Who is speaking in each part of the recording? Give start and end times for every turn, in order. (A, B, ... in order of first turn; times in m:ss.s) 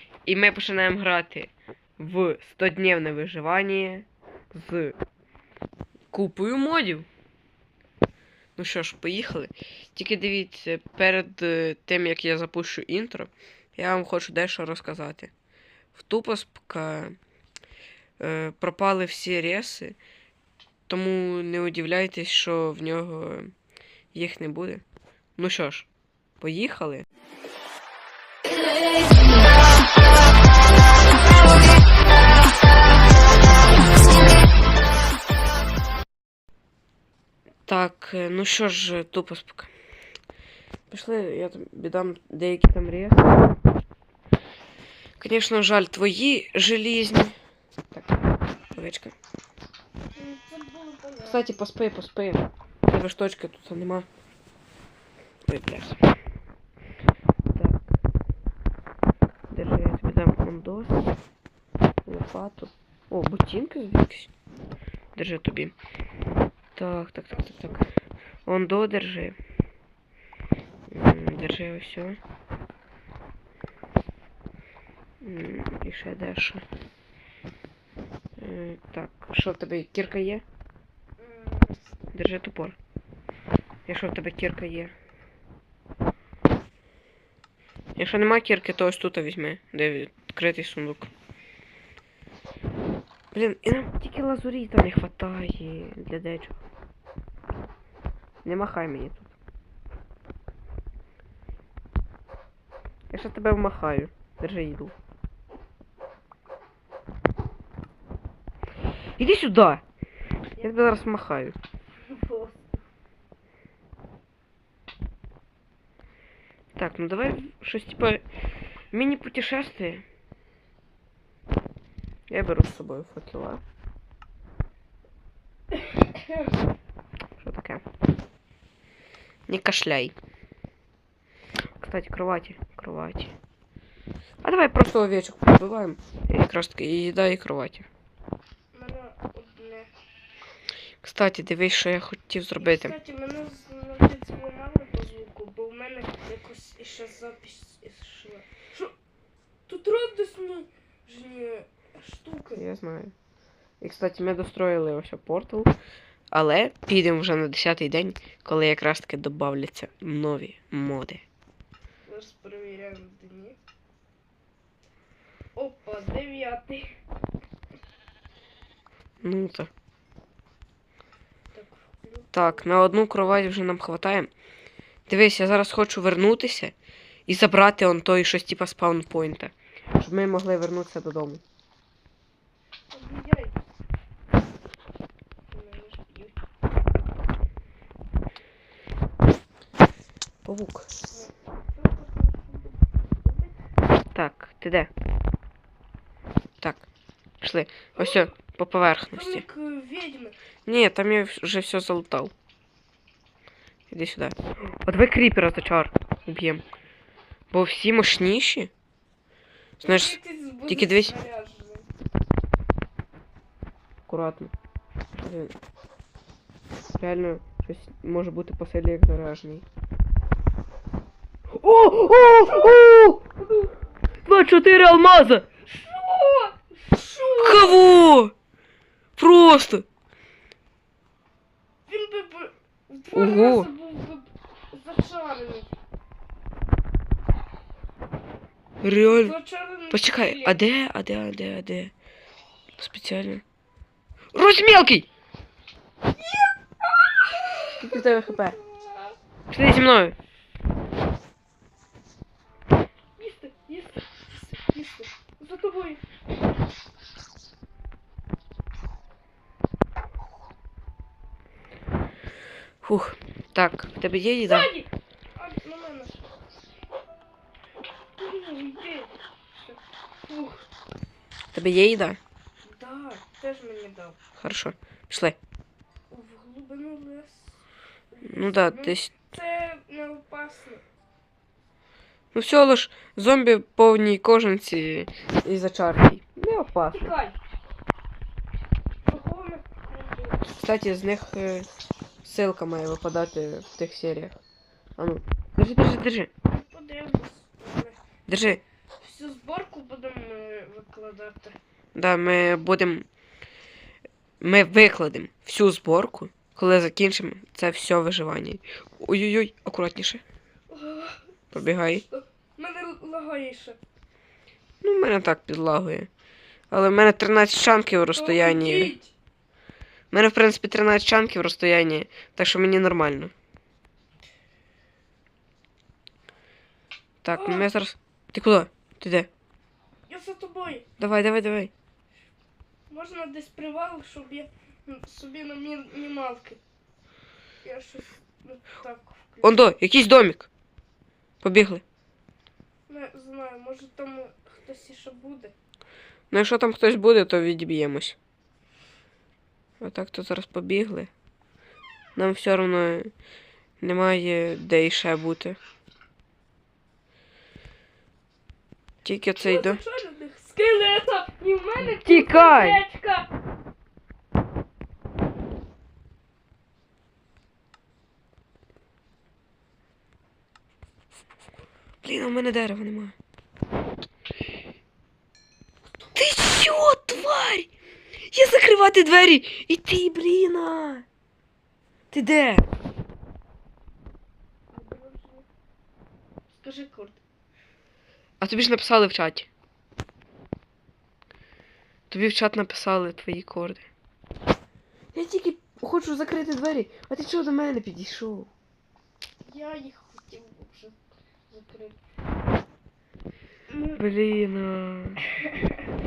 0:00.2-0:05.0 A
0:06.1-0:07.1 A
0:08.6-0:15.3 A
0:15.9-0:17.2 A
0:18.2-0:20.0 A
0:20.9-0:23.5 A
0:24.1-0:24.8 A
0:25.4-0:25.9 A
0:26.4-0:27.0 A
0:37.6-0:39.7 A
0:40.9-0:43.3 A
0:45.2-0:47.4 A
0:48.7-0:49.1 A
0:50.1-0:51.5 B
0:51.2-0:54.1 A
0:55.4-0:56.0 A
0:57.5-0:57.8 A
0:59.5-1:00.9 A
1:02.0-1:04.3 A
1:05.2-1:05.7 A
1:06.7-1:07.8 A
1:07.3-1:07.8 B
1:08.4-1:09.4 A
1:10.9-1:12.2 A
1:15.2-1:16.6 A
1:18.4-1:20.4 A
1:21.2-1:21.8 B
1:22.1-1:22.8 A
1:23.9-1:24.9 A
1:28.0-1:31.1 A
1:33.3-1:36.6 A
1:38.4-1:39.3 A
1:43.1-1:44.9 A
1:49.2-1:49.8 A
1:50.6-1:50.9 B
1:50.6-1:51.6 A
1:52.0-1:52.8 B
1:56.7-1:58.2 A
1:58.9-2:00.0 A
2:02.3-2:03.6 A
2:05.7-2:06.6 B
2:07.4-2:07.8 A
2:09.5-2:10.1 A
2:11.8-2:13.3 A
2:14.4-2:17.9 A
2:18.7-2:19.9 B
2:21.0-2:22.9 A
2:22.6-2:28.9 B
2:29.7-2:32.6 B
2:32.6-2:33.1 A
2:33.8-2:35.7 A
2:36.3-2:41.2 A
2:42.0-2:43.6 B
2:45.5-2:47.0 B
2:49.2-2:49.7 A
2:51.5-2:52.6 B
2:52.3-2:54.3 A
2:55.1-2:56.7 A
2:57.3-3:01.4 A
3:02.9-3:03.6 B
3:05.5-3:06.4 B
3:10.4-3:10.9 A
3:11.1-3:13.5 B
3:14.1-3:14.9 A
3:16.6-3:16.8 A
3:17.4-3:19.4 A
3:18.0-3:18.3 B
3:19.1-3:20.3 B
3:20.6-3:22.3 A
3:23.9-3:26.6 A
3:27.5-3:28.7 A
3:29.8-3:31.9 B
3:29.8-3:30.2 A
3:30.7-3:31.1 A
3:34.1-3:34.5 A
3:35.2-3:35.5 A
3:37.0-3:39.6 A
3:41.5-3:43.2 A
3:42.4-3:42.8 B
3:43.4-3:43.7 B
3:44.2-3:45.4 A
3:45.6-3:47.8 B
3:47.4-3:48.3 A
3:49.2-3:49.8 A
3:51.9-3:55.7 B
3:53.1-3:53.7 A
3:58.8-3:59.3 A
3:59.1-4:00.6 B
3:59.9-4:01.9 A
4:02.8-4:03.4 A
4:04.3-4:05.1 A
4:06.0-4:09.2 B
4:07.8-4:08.6 A
4:09.5-4:10.2 A
4:13.2-4:16.0 B
4:22.8-4:24.7 A
4:24.4-4:26.2 B
4:28.2-4:30.7 B
4:31.5-4:32.2 A
4:32.6-4:34.2 B
4:34.4-4:35.4 A
4:36.1-4:40.8 B
4:38.2-4:39.1 A
4:42.3-4:47.1 A
4:46.9-4:47.4 B
4:49.0-4:50.5 B
4:50.6-4:51.7 A
4:52.2-4:54.4 A
4:55.0-4:56.3 A
4:56.5-4:58.0 B
4:58.3-4:58.6 A
4:59.0-5:01.6 B
5:01.9-5:03.0 A
5:04.4-5:10.2 A
5:10.7-5:11.2 B
5:11.5-5:12.0 A
5:12.1-5:13.8 B
5:14.8-5:16.1 A
5:16.7-5:18.9 A
5:18.1-5:19.1 B
5:20.1-5:23.3 A
5:27.2-5:29.3 A
5:27.3-5:27.7 B
5:30.1-5:30.8 B
5:31.0-5:31.7 A
5:32.9-5:36.6 B
5:37.6-5:39.6 B
5:39.4-5:40.5 A
5:41.4-5:41.8 A
5:42.9-5:45.5 B
5:46.3-5:48.2 A
5:49.8-5:51.1 A
5:52.2-5:53.1 A
5:53.8-5:55.6 A
5:59.0-5:59.8 A
5:59.4-6:03.3 B
6:01.8-6:02.8 A
6:12.0-6:13.1 A
6:15.9-6:16.2 B
6:16.1-6:17.7 A
6:18.3-6:21.0 A
6:22.1-6:22.6 A
6:24.7-6:25.4 B
6:26.5-6:27.2 B
6:28.4-6:29.5 A
6:32.1-6:33.9 A
6:35.1-6:38.5 A
6:39.4-6:41.0 B
6:41.5-6:42.0 B
6:43.7-6:44.0 B
6:44.0-6:45.2 A
6:45.4-6:45.8 B